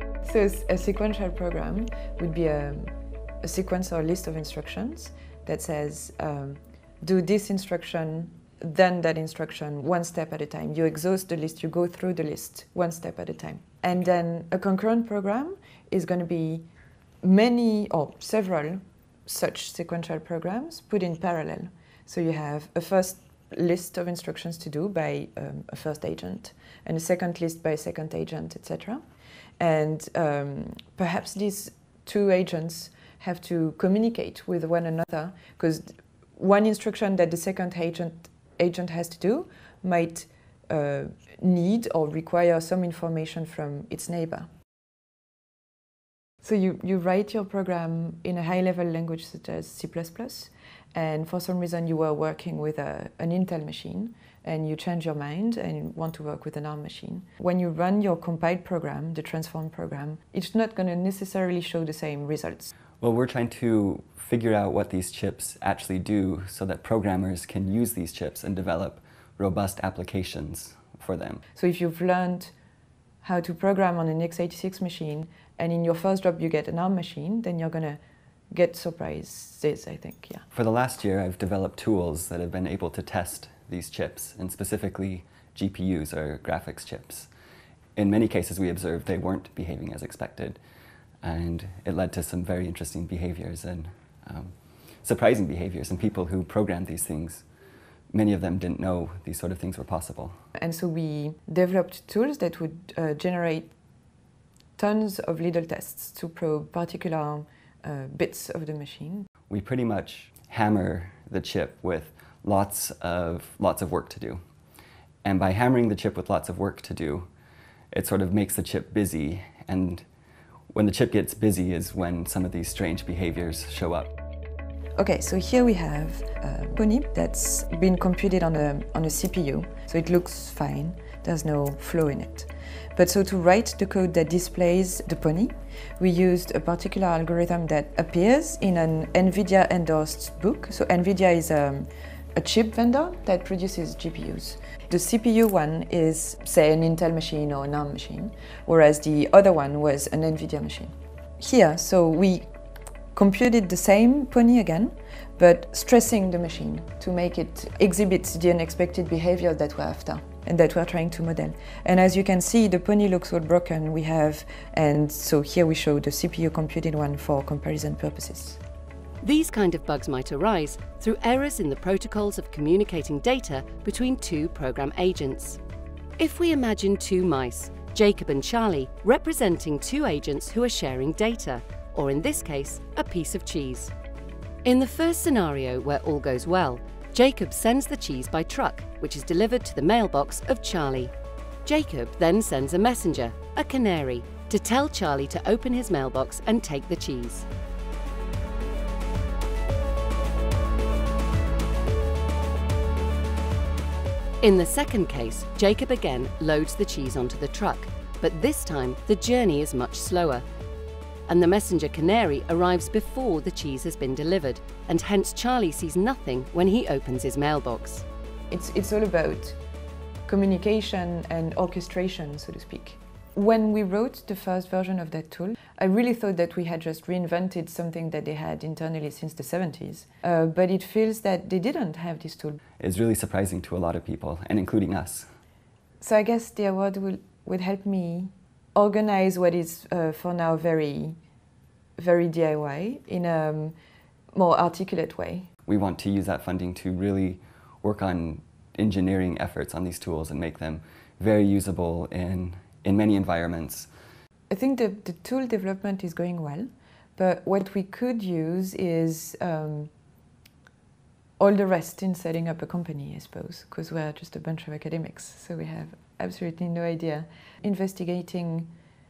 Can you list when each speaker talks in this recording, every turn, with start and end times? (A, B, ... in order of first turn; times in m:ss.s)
0:00.2-0:16.7 A
0:17.2-0:29.0 A
0:29.6-0:44.5 A
0:46.4-1:02.7 A
1:03.0-1:11.4 B
1:11.5-1:12.5 A
1:13.2-1:18.0 A
1:18.5-1:20.4 A
1:20.5-1:27.3 B
1:28.0-1:30.6 B
1:31.2-1:37.4 B
1:38.1-1:40.3 B
1:40.6-1:43.7 A
1:44.8-1:49.3 A
1:49.5-1:54.4 B
1:55.2-1:57.3 B
1:57.9-2:00.0 B
2:00.7-2:04.1 B
2:05.0-2:32.5 A
2:33.1-2:48.6 A
2:49.2-2:55.6 C
2:56.2-3:03.9 C
3:04.6-3:11.1 C
3:11.6-3:17.5 C
3:24.4-3:30.4 C
3:31.3-3:38.0 C
3:38.5-3:39.6 A
3:40.3-3:52.6 A
3:52.8-3:55.3 B
3:56.0-4:01.2 A
4:02.0-4:03.7 A
4:04.3-4:05.5 A
4:05.7-4:13.9 B
4:14.5-4:19.9 A
4:21.4-4:28.7 A